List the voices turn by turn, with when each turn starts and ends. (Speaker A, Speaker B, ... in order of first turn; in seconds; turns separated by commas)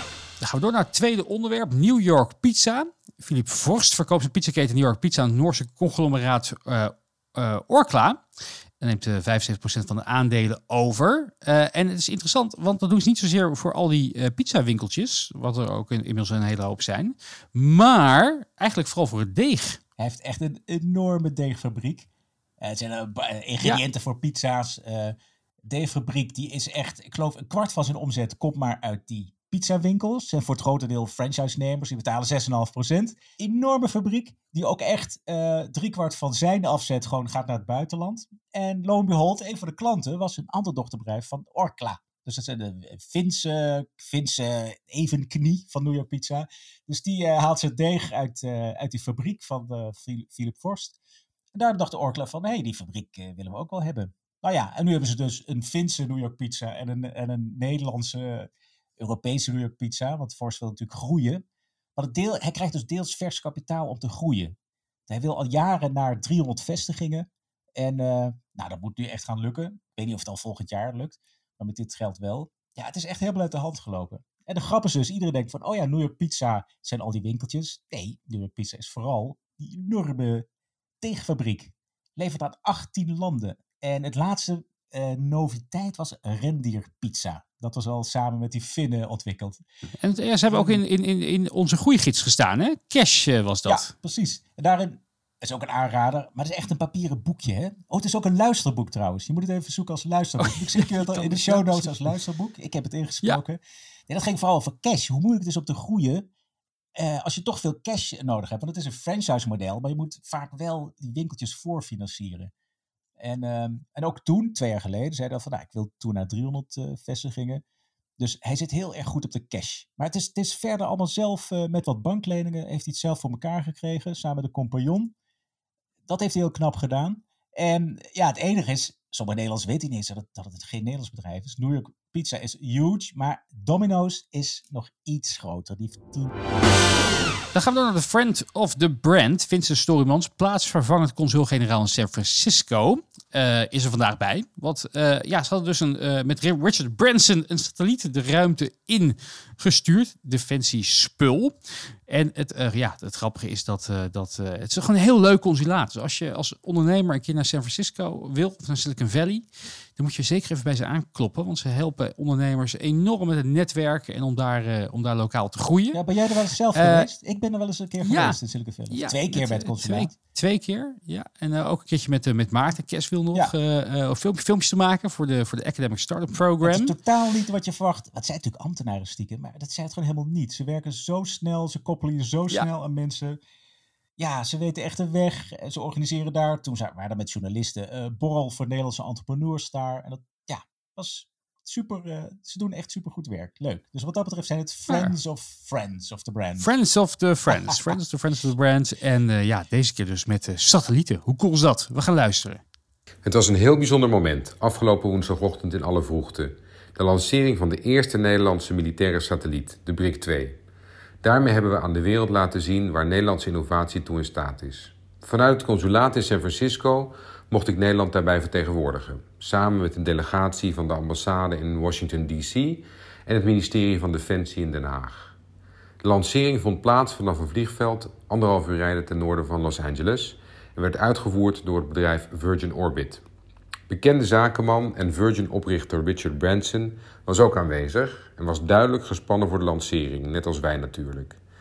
Speaker A: 0.4-8.2, Speaker A: 8.8-19.8, Speaker B: 20.0-22.1, Speaker B: 22.6-25.1, Speaker B: 25.7-51.0, Speaker B: 51.5-61.4, Speaker B: 62.0-64.5, Speaker B: 65.1-80.5, Speaker B: 81.0-89.6, Speaker A: 90.0-93.9, Speaker B: 90.5-90.8, Speaker B: 93.7-106.3, Speaker A: 100.4-101.9, Speaker B: 107.0-112.5, Speaker B: 113.2-117.6, Speaker B: 118.2-125.1, Speaker B: 126.1-136.3, Speaker A: 137.5-166.0, Speaker B: 165.9-170.1, Speaker A: 166.7-167.1, Speaker A: 168.0-168.4, Speaker A: 168.9-176.9, Speaker B: 176.6-183.4, Speaker B: 184.2-196.7, Speaker A: 194.9-195.1, Speaker A: 196.6-202.6, Speaker C: 203.2-210.6, Speaker C: 211.2-225.3, Speaker C: 226.0-233.2, Speaker C: 233.9-241.4